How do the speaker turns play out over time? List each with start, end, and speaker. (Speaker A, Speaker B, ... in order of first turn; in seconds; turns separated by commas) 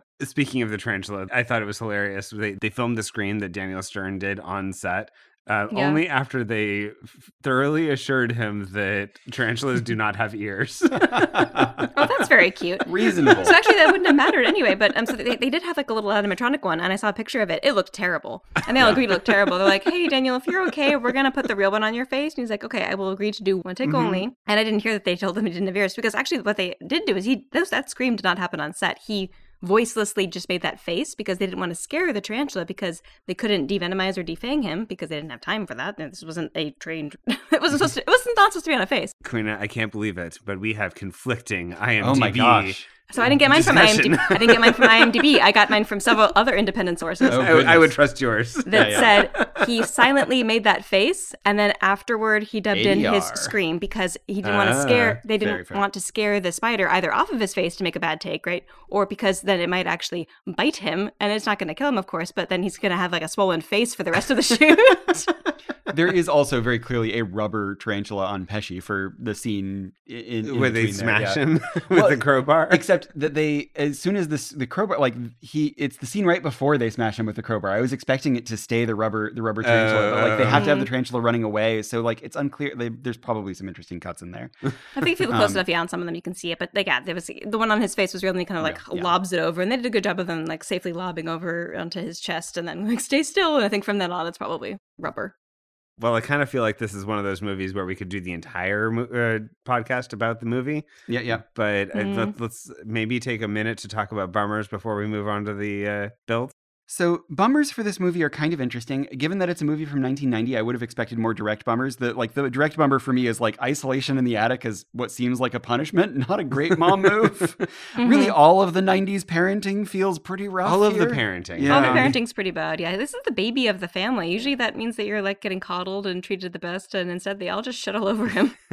Speaker A: 0.2-11.7, Speaker B: 5.7-6.0, Speaker C: 11.1-11.9, Speaker B: 11.9-39.1, Speaker C: 12.8-13.6, Speaker A: 18.8-19.1, Speaker A: 23.9-24.2, Speaker A: 39.2-42.8, Speaker C: 42.0-42.8, Speaker B: 43.1-47.7, Speaker A: 43.3-45.3, Speaker A: 47.2-49.7, Speaker C: 47.3-47.9, Speaker B: 48.6-65.3, Speaker C: 48.7-49.2, Speaker C: 52.7-53.5, Speaker A: 54.4-55.2, Speaker C: 55.4-55.8, Speaker C: 65.9-84.5, Speaker A: 70.4-72.8, Speaker A: 79.6-80.7, Speaker B: 80.5-80.9, Speaker B: 84.9-95.3, Speaker C: 85.2-85.6, Speaker C: 88.6-89.1, Speaker A: 96.0-106.5, Speaker C: 101.1-101.4, Speaker B: 101.9-102.3, Speaker C: 106.9-122.2, Speaker B: 118.0-118.3, Speaker A: 120.6-122.2, Speaker B: 121.7-128.6